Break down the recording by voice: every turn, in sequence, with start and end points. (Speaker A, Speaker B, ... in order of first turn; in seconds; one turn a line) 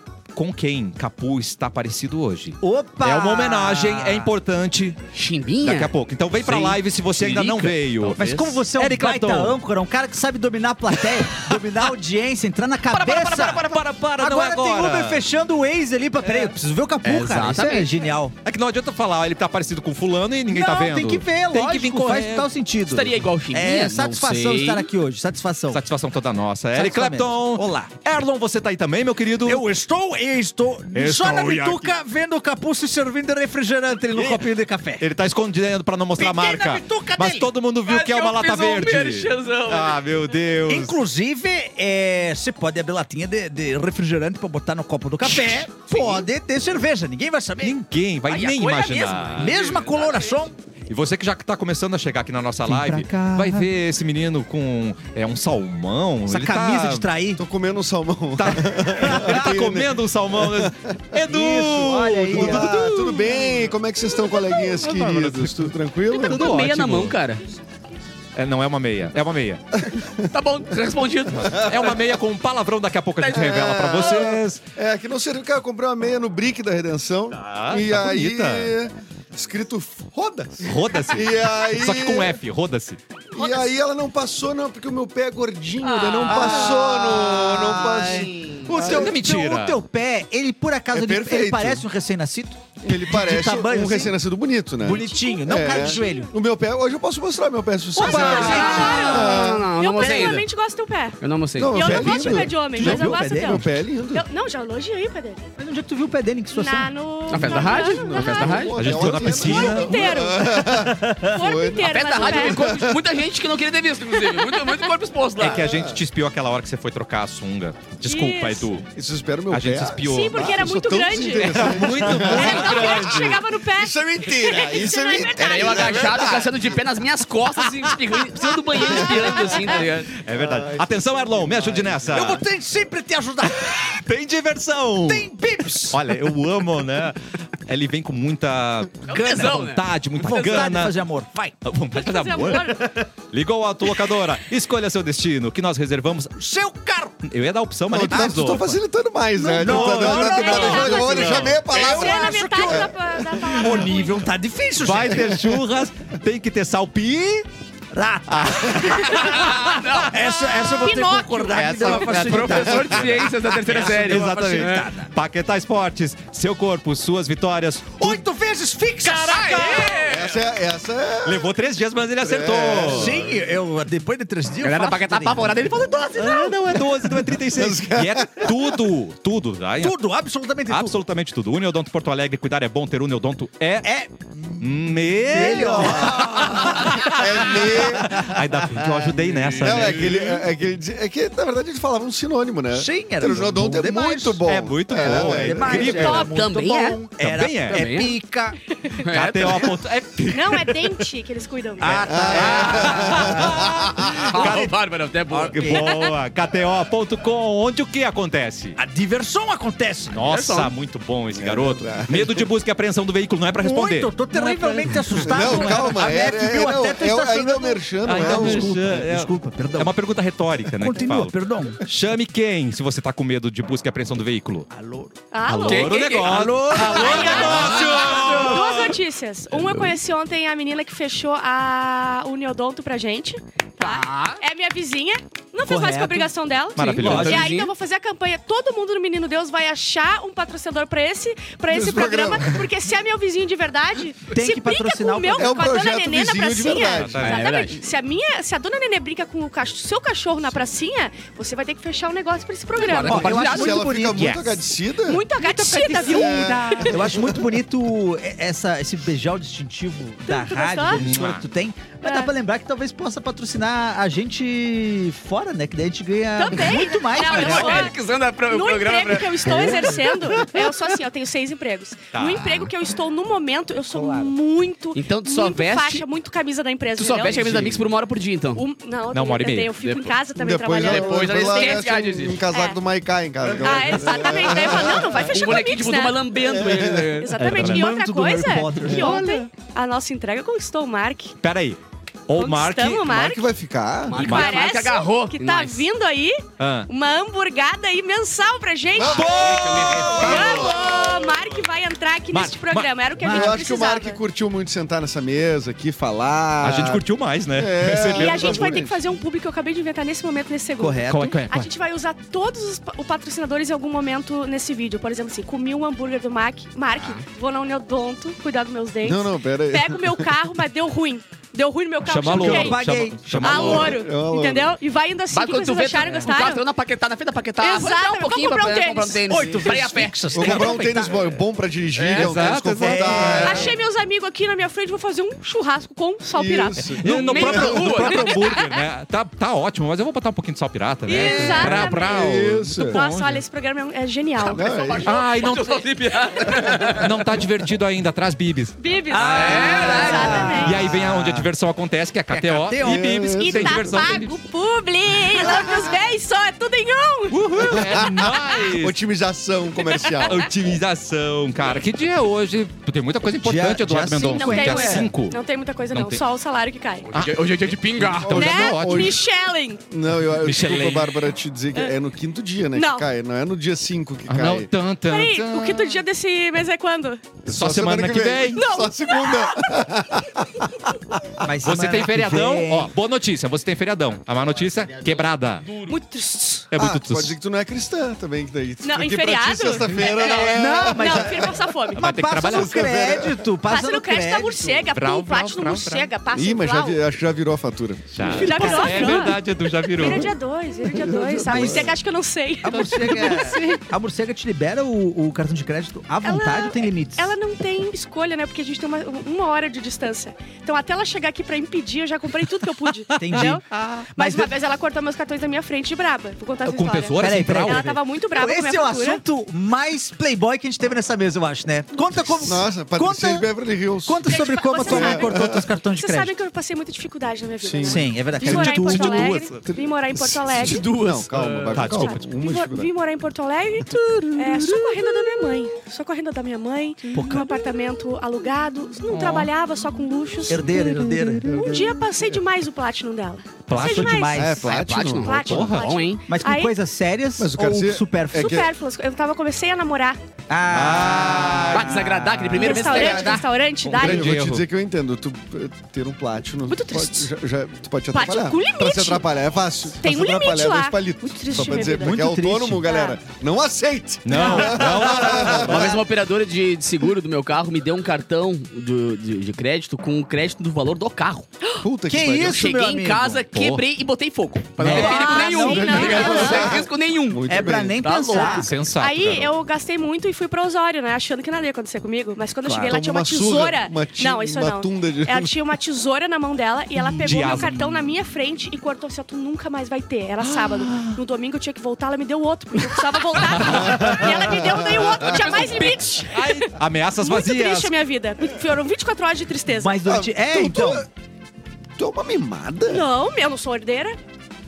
Speaker A: 0.3-5.0
Speaker B: 2.6-4.3
Speaker C: 5.1-8.5
Speaker A: 5.6-9.6
Speaker B: 7.4-18.3
Speaker A: 12.9-15.2
Speaker C: 17.0-17.9
Speaker A: 18.4-22.5
Speaker B: 20.5-25.8
Speaker C: 22.9-24.9
Speaker A: 25.7-29.6
Speaker B: 26.7-27.9
Speaker B: 29.4-35.1
Speaker A: 30.9-32.0
Speaker A: 34.1-34.4
Speaker A: 35.0-40.9
Speaker B: 36.2-37.5
Speaker C: 37.9-40.0
Speaker B: 40.6-47.8
Speaker C: 45.4-46.2
Speaker A: 47.6-49.5
Speaker C: 48.3-50.5
Speaker B: 49.4-50.5
Speaker A: 50.9-57.1
Speaker B: 52.6-53.7
Speaker B: 56.2-57.4
Speaker D: 57.3-60.7
Speaker A: 58.4-62.8
Speaker B: 59.0-59.5
Speaker B: 61.2-63.5
Speaker D: 62.3-66.6
Speaker A: 64.8-67.2
Speaker C: 66.2-67.4
Speaker A: 68.3-69.6
Speaker D: 69.8-70.3
Speaker C: 70.3-71.7
Speaker A: 71.3-74.6
Speaker D: 71.5-72.0
Speaker C: 73.2-74.1
Speaker D: 73.3-82.4
Speaker A: 77.3-78.7
Speaker A: 80.6-83.0
Speaker D: 83.3-89.2
Speaker C: 85.8-86.8
Speaker B: 86.2-94.2
Speaker A: 86.8-87.2
Speaker C: 87.8-88.7
Speaker A: 88.8-89.8
Speaker D: 90.9-91.8
Speaker D: 92.8-100.3
Speaker B: 94.8-96.3
Speaker E: 94.9-96.3
Speaker B: 97.9-99.4
Speaker E: 98.0-101.2
Speaker A: 98.1-98.8
Speaker C: 98.4-100.5
Speaker C: 101.2-102.3
Speaker D: 101.6-104.2
Speaker E: 101.7-105.4
Speaker B: 101.9-103.7
Speaker B: 105.6-106.9
Speaker E: 106.5-110.7
Speaker C: 107.3-109.0
Speaker D: 107.3-113.0
Speaker A: 108.7-110.3
Speaker B: 110.6-111.2
Speaker E: 111.2-112.6
Speaker C: 111.8-115.7
Speaker E: 114.2-114.8
Speaker A: 115.4-118.9
Speaker D: 115.5-116.0
Speaker E: 118.0-118.8
Speaker D: 118.9-126.8
Speaker A: 119.5-120.6
Speaker E: 120.0-126.3
Speaker A: 121.4-123.4
Speaker C: 125.4-130.1
Speaker D: 128.8-132.3
Speaker A: 130.1-132.4
Speaker B: 132.1-134.0
Speaker A: 133.6-135.3
Speaker B: 135.1-136.0
Speaker A: 135.9-140.9
Speaker C: 139.1-140.8
Speaker B: 140.2-141.6
Speaker A: 141.6-146.3
Speaker E: 141.9-142.8
Speaker B: 142.5-143.0
Speaker B: 146.3-147.2
Speaker A: 147.2-148.8
Speaker D: 147.9-153.8
Speaker B: 149.4-152.9
Speaker A: 149.6-150.1
Speaker E: 150.0-154.3
Speaker A: 150.6-151.6
Speaker B: 153.6-155.3
Speaker A: 154.8-157.4
Speaker B: 157.9-165.1
Speaker A: 158.3-159.6
Speaker C: 159.3-160.2
Speaker E: 160.8-161.9
Speaker A: 161.5-168.2
Speaker D: 161.8-163.2
Speaker C: 162.0-164.8
Speaker B: 168.0-169.9
Speaker A: 169.0-170.0
Speaker C: 169.3-170.4
Speaker D: 170.0-171.5
Speaker A: 171.2-173.3
Speaker D: 172.2-173.2
Speaker B: 172.8-175.6
Speaker C: 174.6-176.8
Speaker A: 176.2-179.9
Speaker D: 177.5-178.7
Speaker B: 179.8-181.0
Speaker A: 180.7-183.9
Speaker B: 183.8-188.8
Speaker A: 184.6-190.5
Speaker D: 185.3-188.3
Speaker C: 189.5-189.9
Speaker D: 189.6-196.1
Speaker B: 192.7-198.6
Speaker A: 194.4-196.3
Speaker C: 195.8-197.0
Speaker A: 197.2-197.8
Speaker C: 197.7-198.2
Speaker C: 199.0-199.7
Speaker A: 199.1-200.8
Speaker E: 200.3-202.0
Speaker A: 201.8-204.8
Speaker B: 201.8-203.6
Speaker D: 202.1-204.1
Speaker C: 202.6-203.1
Speaker C: 204.3-205.8
Speaker A: 205.3-208.8
Speaker B: 205.4-205.8
Speaker B: 208.8-210.2
Speaker A: 210.1-215.9
Speaker C: 210.3-210.7
Speaker D: 211.3-212.5
Speaker B: 213.6-219.9
Speaker D: 215.2-218.9
Speaker A: 218.0-224.7
Speaker B: 220.7-221.8
Speaker B: 224.7-225.1
Speaker E: 225.3-253.4
Speaker A: 225.5-229.0
Speaker C: 225.7-226.3
Speaker B: 226.2-228.5
Speaker C: 227.4-228.1
Speaker A: 229.6-229.9
Speaker C: 233.8-234.4
Speaker B: 235.6-236.3
Speaker A: 236.8-237.5
Speaker B: 236.9-237.5
Speaker C: 237.0-237.7
Speaker D: 241.7-242.7
Speaker B: 244.3-245.7
Speaker D: 245.4-247.3
Speaker A: 246.9-247.4
Speaker C: 247.2-247.8
Speaker C: 252.8-253.8
Speaker B: 253.0-254.6
Speaker D: 253.1-255.2
Speaker A: 254.1-254.5
Speaker E: 255.1-257.0
Speaker B: 255.4-267.9
Speaker D: 255.9-257.4
Speaker E: 260.3-261.0
Speaker A: 260.9-261.4
Speaker E: 262.0-262.3
Speaker E: 266.3-267.9
Speaker C: 267.1-270.0
Speaker E: 268.5-277.6
Speaker A: 272.1-272.7
Speaker B: 273.9-274.3
Speaker C: 274.9-276.0
Speaker C: 277.0-278.6
Speaker D: 277.2-277.9
Speaker E: 278.5-281.8
Speaker A: 279.1-279.8
Speaker C: 279.8-280.1
Speaker D: 280.4-285.3
Speaker C: 280.8-282.4
Speaker E: 282.5-282.8
Speaker E: 283.6-286.2
Speaker C: 284.6-287.4
Speaker D: 286.4-287.1
Speaker E: 287.2-291.4
Speaker B: 287.4-289.4
Speaker A: 287.4-287.9
Speaker D: 288.9-289.4
Speaker A: 291.4-293.1
Speaker E: 292.4-293.4
Speaker D: 293.1-294.2
Speaker C: 294.1-295.9
Speaker E: 294.1-304.2
Speaker A: 294.2-294.6
Speaker A: 296.6-296.9
Speaker D: 298.9-301.3
Speaker C: 299.1-300.4
Speaker A: 299.1-300.8
Speaker A: 302.3-302.9
Speaker B: 303.2-303.6
Speaker D: 303.2-309.0
Speaker A: 306.6-308.8
Speaker E: 308.1-322.9
Speaker B: 310.8-311.4
Speaker A: 311.1-311.7
Speaker D: 319.0-320.3
Speaker A: 322.0-324.0
Speaker B: 322.3-323.9
Speaker E: 323.4-326.6
Speaker D: 323.5-324.7
Speaker C: 325.3-330.4
Speaker E: 327.6-329.2
Speaker B: 329.3-331.2
Speaker D: 330.3-333.7
Speaker A: 330.4-331.1
Speaker C: 331.9-332.4
Speaker A: 332.1-333.7
Speaker C: 333.1-333.4
Speaker E: 333.2-338.8
Speaker D: 336.3-338.1
Speaker A: 336.9-343.4
Speaker C: 337.3-338.3
Speaker E: 341.1-342.3
Speaker D: 341.2-343.0
Speaker E: 342.9-344.7
Speaker C: 344.4-347.2
Speaker D: 344.5-345.2
Speaker A: 345.0-345.8
Speaker A: 346.9-354.3
Speaker E: 348.8-350.8
Speaker B: 349.1-351.4
Speaker C: 349.3-350.6
Speaker B: 352.3-353.1
Speaker D: 352.8-353.8
Speaker E: 353.2-357.8
Speaker D: 355.5-355.8
Speaker A: 357.3-359.0
Speaker D: 357.6-360.8
Speaker E: 360.0-360.4
Speaker A: 360.2-365.4
Speaker B: 363.4-365.1
Speaker E: 364.1-367.1
Speaker A: 365.9-366.2
Speaker C: 367.1-368.3
Speaker A: 367.1-369.2
Speaker D: 368.2-369.2
Speaker E: 368.3-369.8
Speaker D: 369.9-374.7
Speaker A: 370.4-371.3
Speaker E: 372.7-373.1
Speaker A: 374.3-376.0
Speaker E: 375.1-377.2
Speaker D: 377.4-380.7
Speaker A: 377.5-378.6
Speaker E: 378.5-379.6
Speaker B: 381.4-382.9
Speaker A: 381.5-385.7
Speaker C: 385.6-385.9
Speaker E: 385.9-386.7
Speaker A: 386.7-387.4
Speaker D: 386.7-391.6
Speaker E: 388.8-392.0
Speaker B: 390.3-394.9
Speaker A: 392.0-392.8
Speaker D: 392.4-393.4
Speaker E: 393.6-397.0
Speaker A: 394.9-396.1
Speaker D: 396.3-398.7
Speaker A: 398.1-400.3
Speaker E: 398.2-403.8
Speaker B: 398.3-399.3
Speaker D: 400.9-401.9
Speaker B: 401.1-401.9
Speaker B: 402.6-407.3
Speaker E: 406.2-419.2
Speaker A: 413.1-414.1
Speaker B: 413.1-414.5
Speaker A: 416.6-417.8
Speaker B: 417.2-423.5
Speaker D: 422.4-425.6
Speaker B: 424.0-426.3
Speaker E: 424.3-430.9
Speaker D: 427.6-432.9
Speaker B: 427.8-429.4
Speaker A: 428.5-429.6
Speaker C: 430.6-431.8
Speaker A: 431.8-432.2
Speaker E: 431.9-446.7
Speaker B: 433.9-434.9
Speaker B: 437.1-437.5
Speaker B: 439.1-439.5
Speaker B: 440.5-441.8
Speaker D: 441.4-442.4
Speaker A: 443.7-444.3
Speaker B: 443.7-444.7
Speaker D: 444.3-445.7
Speaker C: 444.6-446.2
Speaker A: 445.4-445.9
Speaker B: 446.3-448.6
Speaker D: 447.4-448.7
Speaker E: 448.3-450.2
Speaker B: 450.5-453.2
Speaker A: 450.7-452.0
Speaker C: 451.7-453.5
Speaker E: 452.6-454.3
Speaker D: 452.9-453.4
Speaker A: 453.8-454.7
Speaker D: 453.9-466.0
Speaker E: 456.7-457.3
Speaker E: 458.1-459.2
Speaker E: 460.0-462.2
Speaker B: 461.5-462.9
Speaker E: 462.8-463.2
Speaker A: 464.2-466.0
Speaker E: 464.3-464.7
Speaker B: 464.5-465.9
Speaker C: 465.5-471.5
Speaker D: 471.8-472.6
Speaker B: 472.1-473.4
Speaker C: 472.4-478.6
Speaker A: 473.5-473.8
Speaker B: 474.8-476.9
Speaker E: 474.8-476.7
Speaker D: 475.0-478.0
Speaker B: 477.5-478.7
Speaker E: 478.3-499.9
Speaker A: 478.5-479.5
Speaker B: 482.6-482.9
Speaker D: 482.8-485.5
Speaker A: 487.2-488.1
Speaker A: 490.4-491.2
Speaker A: 493.4-494.3
Speaker D: 493.7-495.9
Speaker A: 495.4-497.9
Speaker B: 499.7-501.1
Speaker D: 500.1-501.1
Speaker D: 502.0-503.1
Speaker E: 502.9-504.2